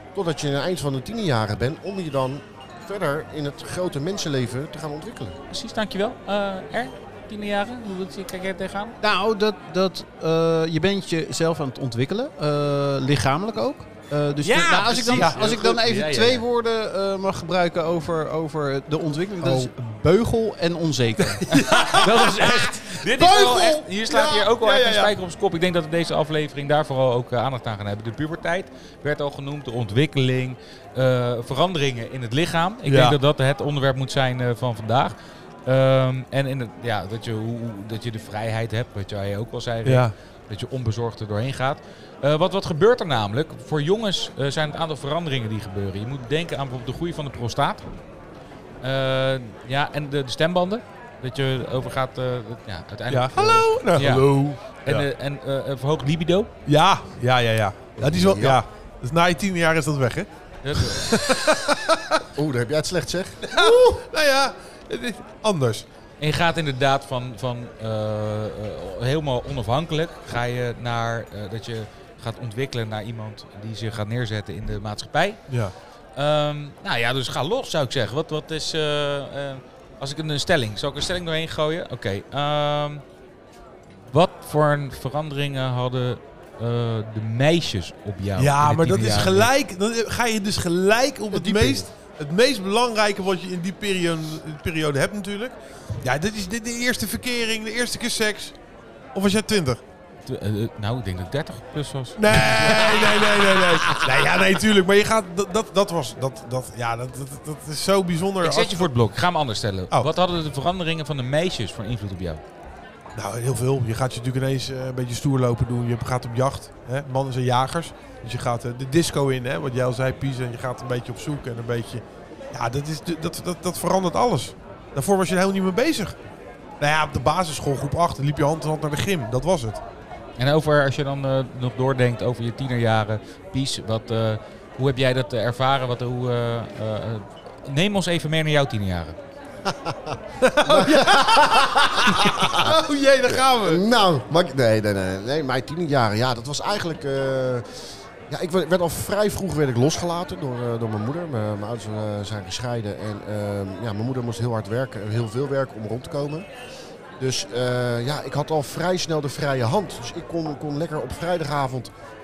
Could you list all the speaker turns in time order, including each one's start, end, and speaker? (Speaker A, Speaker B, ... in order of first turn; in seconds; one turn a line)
Speaker A: 0.1-5.4
Speaker B: 5.5-9.0
Speaker C: 9.0-22.9
Speaker B: 14.4-16.4
Speaker D: 15.1-15.7
Speaker D: 19.4-19.7
Speaker D: 21.2-25.1
Speaker B: 21.5-35.1
Speaker D: 32.9-33.2
Speaker B: 35.7-47.8
Speaker D: 39.9-40.1
Speaker B: 48.8-56.5
Speaker D: 53.1-55.1
Speaker D: 56.7-62.2
Speaker A: 58.0-58.6
Speaker B: 60.6-61.5
Speaker A: 62.4-63.8
Speaker D: 63.4-65.8
Speaker B: 66.2-75.4
Speaker B: 76.2-83.0
Speaker B: 84.1-89.5
Speaker D: 88.4-98.5
Speaker A: 91.3-91.9
Speaker D: 99.2-99.8
Speaker B: 100.3-104.0
Speaker D: 102.2-108.9
Speaker B: 108.4-112.4
Speaker D: 113.2-126.2
Speaker D: 126.8-129.8
Speaker B: 130.4-139.2
Speaker A: 139.7-147.7
Speaker D: 140.4-143.8
Speaker A: 148.3-156.5
Speaker A: 157.2-161.9